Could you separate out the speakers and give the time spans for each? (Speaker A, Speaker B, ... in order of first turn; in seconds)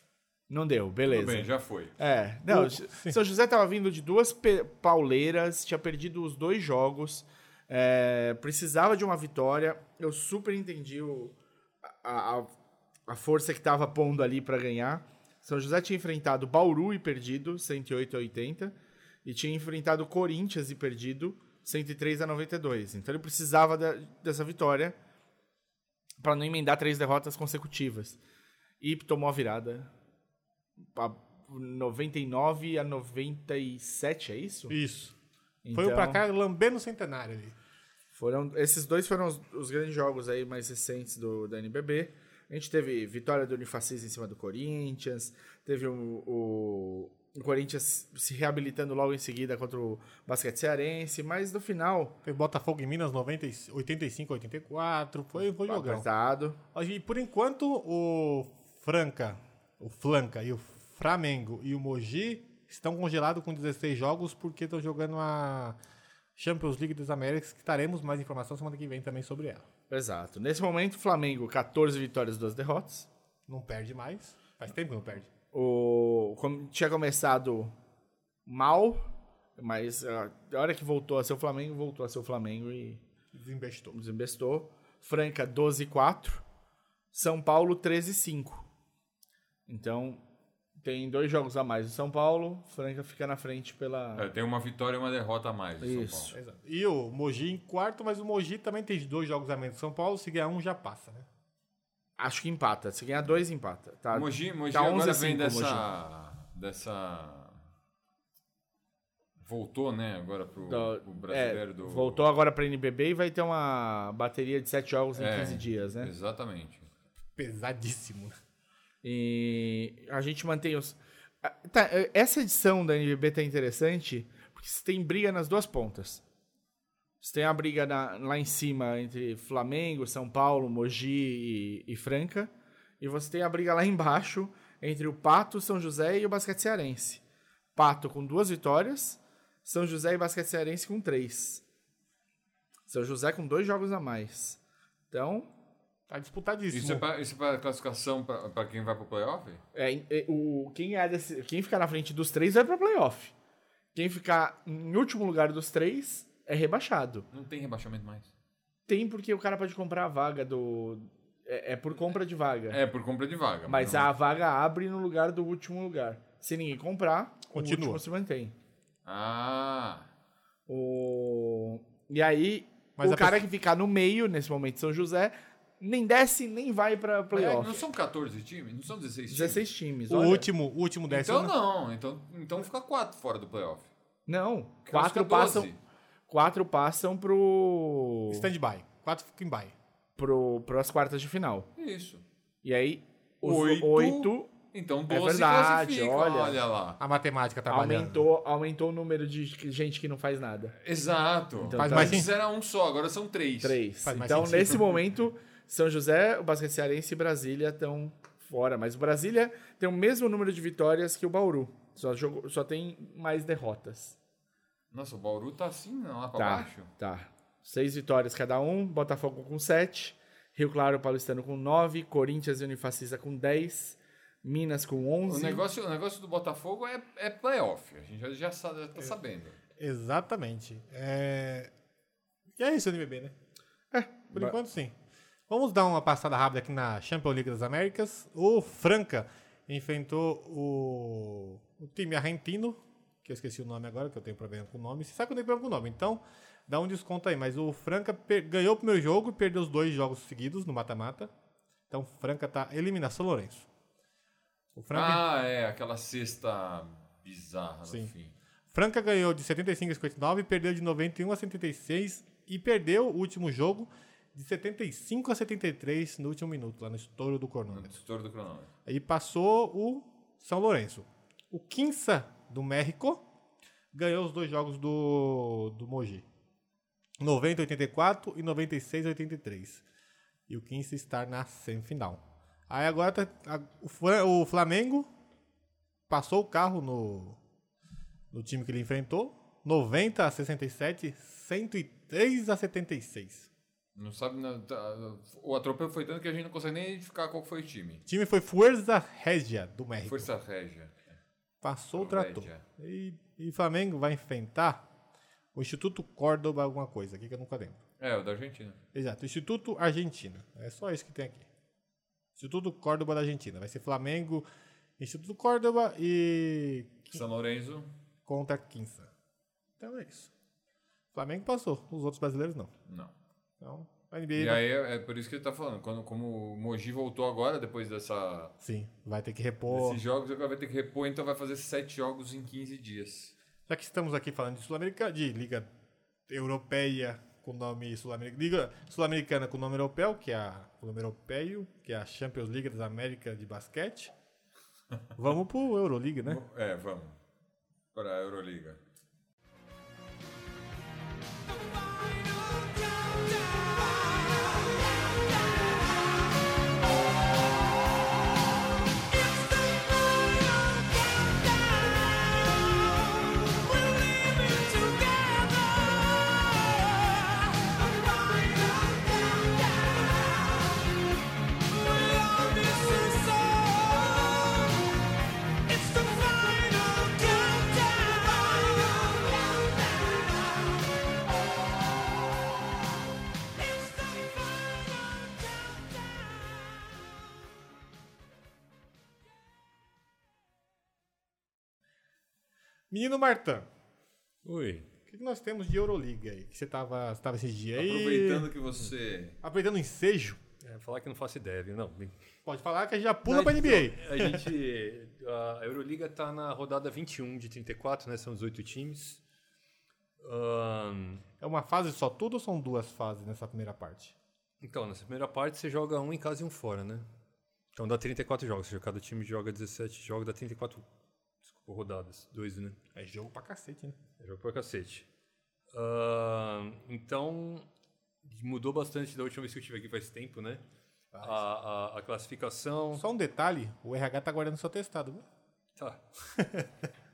Speaker A: 0.5-12.5, 13.1-25.0, 26.2-28.2, 28.8-29.9, 30.9-34.8, 35.6-36.2, 38.1-52.2, 55.7-56.6, 69.9-73.1, 75.5-77.8, 78.5-83.0, 83.9-86.4, 87.1-88.7, 89.7-90.2, 90.8-94.3, 95.8-96.3, 102.2-105.8, 110.7-116.1, 119.0-126.2, 127.2-137.2, 137.8-141.6, 142.9-144.6, 145.1-145.5, 149.7-153.3, 153.9-157.3, 158.9-162.8, 163.7-168.5, 170.7-177.8, 179.3-180.5, 184.3-185.7, 186.3-188.5, 190.2-191.7, 192.6-194.5, 195.1-196.6, 197.7-200.8, 201.6-202.3, 203.6-214.2, 216.3-225.6, 233.9-234.6
Speaker B: 1.1-1.9, 94.2-96.3, 104.1-107.6, 109.4-112.2, 115.2-116.9, 146.7-149.6, 157.3-158.3, 162.7-164.1, 169.1-170.1, 177.3-179.7, 181.1-183.9, 184.9-185.8, 191.8-192.2, 193.4-197.0, 200.8-203.8, 214.9-216.9, 225.2-229.6, 254.9-258.3, 267.7-268.7, 293.9-298.0, 300.1-301.2, 301.9-302.6, 308.0-308.8, 317.1-317.9, 324.4-328.5, 329.7-333.3, 346.2-347.2, 347.9-348.8, 397.8-399.4
Speaker C: 2.5-3.2, 34.7-35.1, 35.7-37.5, 52.2-56.1, 56.7-65.8, 66.4-69.7, 73.5-75.3, 83.3-84.0, 96.3-101.3, 117.3-118.3, 146.1-147.1, 167.5-168.0, 173.0-173.4, 180.1-181.6, 188.3-189.8, 197.0-198.3, 201.8-202.3, 204.1-204.8, 229.8-231.7, 232.6-233.3, 234.3-234.9, 235.5-251.3, 251.9-253.7, 254.8-255.2, 258.7-267.9, 268.9-273.2, 273.9-276.3, 277.2-279.8, 280.5-285.1, 286.1-287.4, 288.3-293.5, 298.1-300.3, 301.6-304.8, 305.5-307.8, 308.9-311.5, 312.4-314.4, 315.0-317.2, 318.3-319.1, 319.8-320.3, 321.1-322.7, 323.6-324.6, 328.6-330.0, 333.7-335.7, 336.3-344.1, 345.2-346.4, 392.9-393.7, 395.1-398.5, 399.4-400.4, 402.4-404.5, 411.4-414.1, 422.9-424.0, 431.1-431.4, 432.9-435.2, 436.4-436.7
Speaker D: 351.9-354.6, 359.2-361.9, 363.4-366.5, 367.5-369.9, 371.8-374.6, 375.7-380.4
Speaker E: 394.4-394.9, 400.6-402.2, 403.3-409.2, 410.2-411.2, 414.6-417.1, 417.8-420.8, 421.4-422.8, 424.2-425.1, 425.7-427.7, 428.2-430.6, 431.2-433.0, 435.8-436.0